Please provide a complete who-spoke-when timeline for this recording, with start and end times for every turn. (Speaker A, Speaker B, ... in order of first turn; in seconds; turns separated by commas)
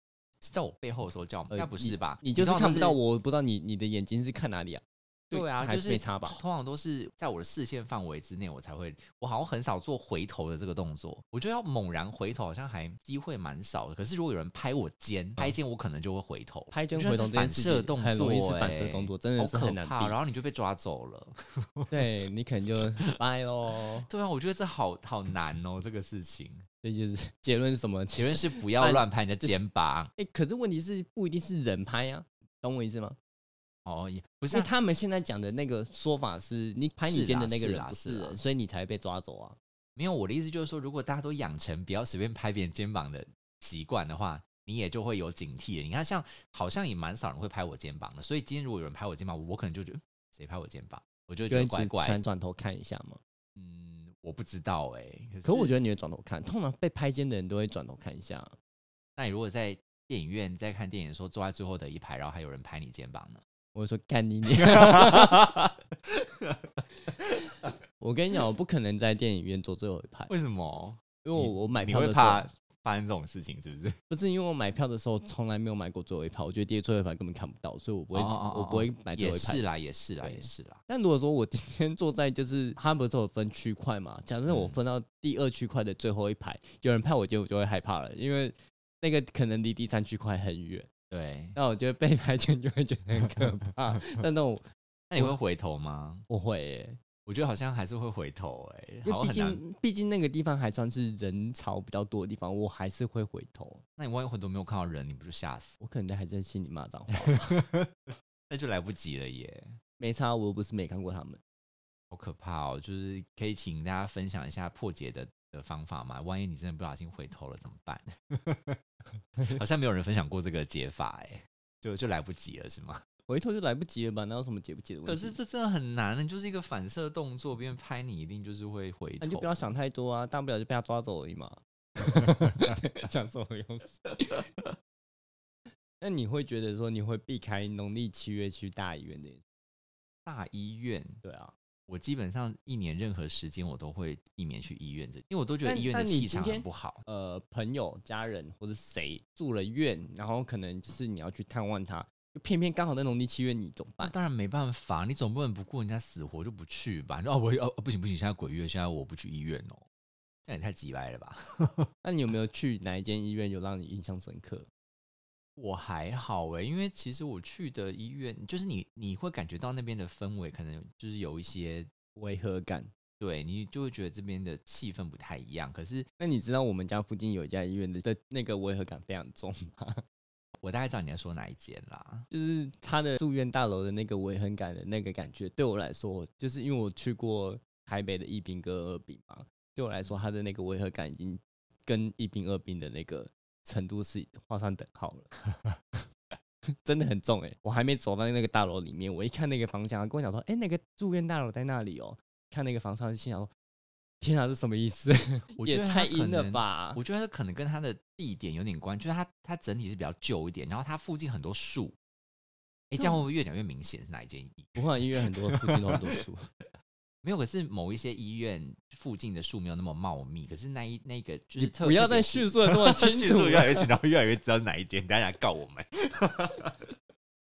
Speaker A: 0.4-3.0, Speaker B: 1.5-6.4, Speaker A: 5.3-22.0, Speaker B: 16.7-20.2, Speaker B: 21.9-24.1, Speaker A: 24.0-26.6, Speaker B: 26.8-29.6, Speaker A: 28.2-30.1, Speaker B: 30.2-33.2, Speaker A: 33.9-34.7, Speaker B: 34.5-39.6, Speaker A: 37.0-38.4, Speaker A: 40.0-52.2, Speaker B: 51.5-53.2, Speaker A: 53.6-55.7, Speaker B: 55.4-58.5, Speaker A: 59.2-63.4, Speaker B: 63.8-65.5, Speaker A: 64.6-67.3, Speaker B: 68.0-70.3, Speaker A: 70.3-74.0, Speaker B: 71.2-72.5, Speaker B: 74.1-79.6, Speaker A: 78.1-80.8, Speaker B: 80.2-90.9, Speaker A: 84.5-84.8, Speaker A: 91.1-91.6, Speaker B: 91.5-94.6, Speaker A: 95.1-96.3, Speaker B: 96.3-97.0, Speaker A: 97.3-99.6, Speaker B: 99.1-103.8, Speaker A: 104.0-105.8, Speaker B: 105.8-107.5, Speaker A: 107.2-109.8, Speaker B: 110.0-111.4, Speaker A: 112.1-118.8, Speaker A: 119.4-123.0, Speaker B: 123.3-125.4, Speaker A: 125.1-129.5, Speaker B: 129.2-134.5, Speaker B: 136.0-139.4, Speaker A: 140.3-141.2, Speaker B: 141.2-141.5, Speaker A: 141.9-147.0, Speaker B: 145.6-154.1, Speaker A: 154.0-159.9, Speaker A: 160.4-161.9, Speaker B: 162.0-164.7, Speaker A: 165.6-171.9, Speaker B: 172.2-172.9, Speaker A: 173.2-176.1, Speaker B: 176.2-180.0, Speaker A: 180.6-182.3, Speaker B: 182.3-195.3, Speaker B: 196.8-203.5, Speaker B: 204.2-207.0, Speaker A: 205.6-212.0, Speaker A: 212.9-216.0, Speaker B: 214.8-216.5, Speaker A: 217.2-226.9, Speaker B: 221.6-223.9